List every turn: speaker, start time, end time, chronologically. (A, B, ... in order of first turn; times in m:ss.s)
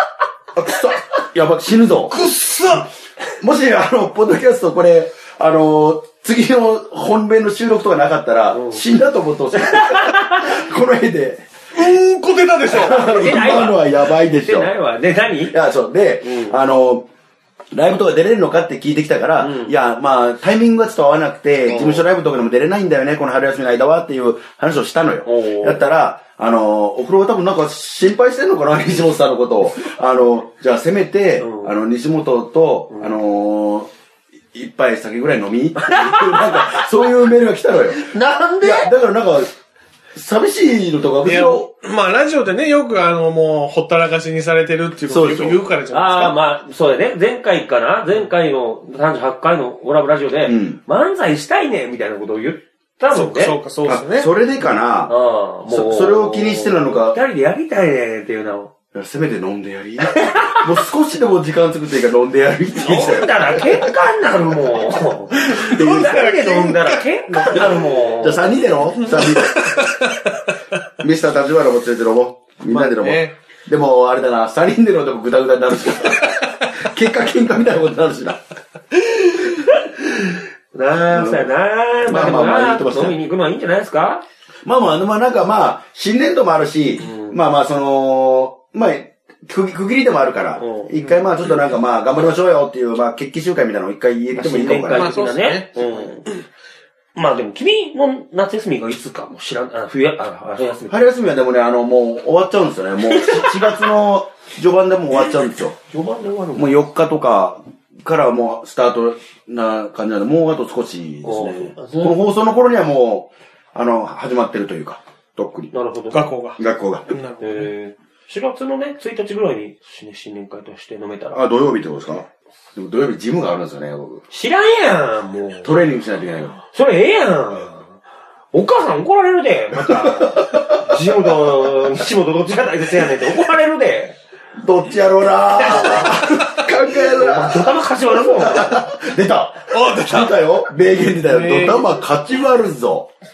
0:00.6-0:02.2 A
0:02.1-0:02.9 B
0:03.4-0:11.5 A
0:08.5-0:08.8 C
0:09.9-0:10.4 C
0:11.7-0:13.7 B
0:12.7-0:14.7 A
0:12.7-0:15.5 C
0:15.5-0:17.0 A
0:16.2-0:16.6 C
0:17.7-0:33.9 A
0:19.4-0:19.7 C
0:21.7-0:22.0 B
0:25.3-0:25.9 C
0:31.4-0:31.7 C
0:34.5-0:39.5 A
0:35.8-0:36.9 C
0:38.0-0:38.9 C
0:40.2-0:41.7 A
0:41.2-0:46.4 B
0:45.1-0:45.6 A
0:45.9-0:53.6 C
0:50.4-0:50.8 A
0:53.1-0:54.3 B
0:53.8-0:55.1 A
0:55.1-0:58.7 C
0:55.7-0:57.2 A
0:58.9-1:03.9 A
1:00.1-1:00.6 C
1:02.8-1:08.5 C
1:05.7-1:06.8 A
1:05.7-1:07.7 B
1:07.3-1:09.8 A
1:09.0-1:10.4 B
1:11.0-1:18.4 A
1:12.7-1:13.3 B
1:19.3-1:24.2 C
1:21.1-1:21.5 A
1:22.1-1:23.2 A
1:24.6-1:35.2 A
1:27.0-1:27.4 C
1:30.6-1:30.9 C
1:34.3-1:36.2 C
1:34.9-1:36.4 B
1:37.1-1:41.0 C
1:40.9-1:45.8 A
1:43.2-1:43.7 C
1:45.9-1:46.8 C
1:46.6-1:55.7 A
1:51.2-1:52.2 C
1:55.7-1:56.2 C
1:56.1-1:57.7 B
1:56.6-1:57.1 A
1:57.4-2:01.4 C
2:01.3-2:04.2 A
2:04.3-2:05.7 C
2:05.6-2:06.6 A
2:06.7-2:07.9 C
2:08.5-2:14.2 C
2:09.9-2:11.1 A
2:14.6-2:23.1 A
2:15.6-2:16.3 C
2:17.1-2:18.8 C
2:19.7-2:20.4 B
2:21.0-2:21.9 B